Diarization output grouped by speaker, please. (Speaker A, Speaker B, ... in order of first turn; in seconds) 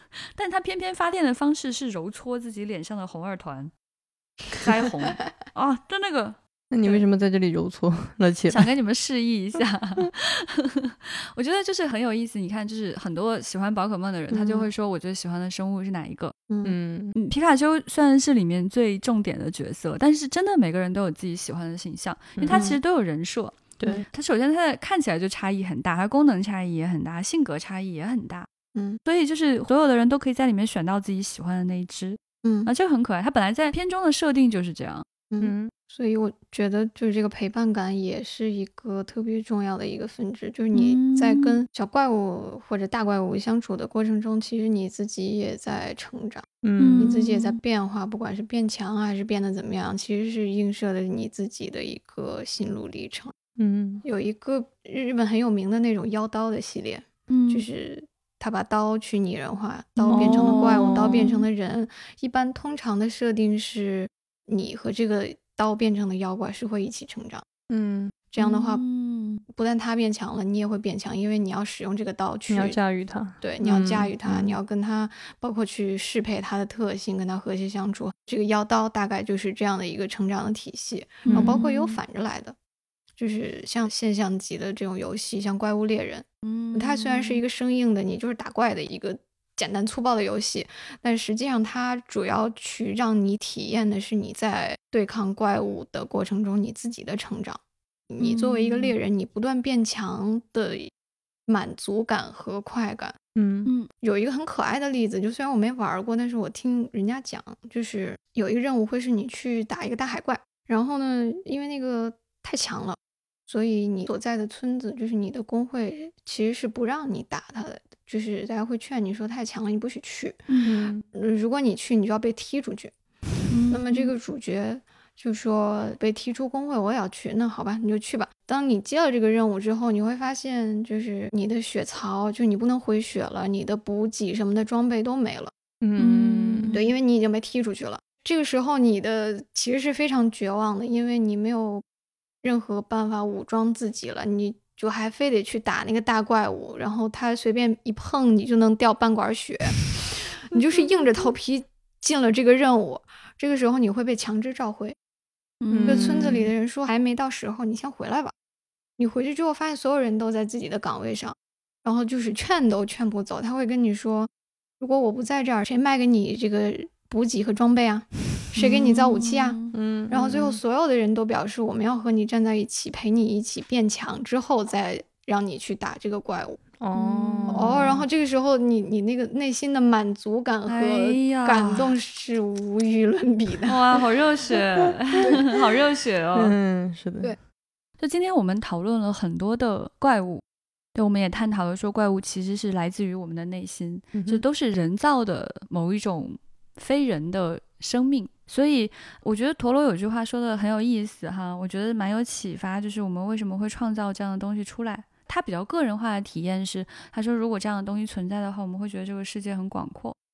Speaker A: 0.3-3.7, 4.5-7.0, 8.5-16.4, 17.1-28.5, 29.0-35.0, 40.7-41.6, 46.8-47.6, 57.3-57.6, 60.0-61.4, 68.4-69.4, 81.2-82.0, 86.4-87.4, 98.2-98.9, 103.6-103.9, 123.5-124.1, 136.0-136.9, 155.6-156.4, 168.6-169.7, 176.9-177.9, 180.7-181.9, 183.7-186.6, 188.0-190.4, 190.9-210.1
Speaker B: 6.7-8.7, 16.6-17.1, 22.4-22.7, 23.8-24.1, 35.4-35.7, 46.6-47.1, 53.6-54.0, 60.1-61.4, 67.7-68.1, 72.5-74.5, 81.3-81.6, 103.3-103.7, 120.6-121.0, 135.8-136.7, 155.7-156.5, 169.7-170.6, 176.8-178.0, 186.3-187.3, 194.1-194.4
Speaker C: 16.5-16.7, 22.5-22.8, 28.7-29.0, 32.4-32.7, 35.3-46.5, 47.0-53.3, 54.0-67.4, 68.3-68.8, 69.5-72.8, 73.4-82.5, 83.2-97.6, 98.1-100.9, 101.5-103.2, 104.0-120.5, 121.1-122.9, 123.7-135.5, 136.7-141.8, 142.4-154.9, 155.9-158.3, 159.0-164.3, 164.8-169.6, 170.1-176.6, 177.5-183.8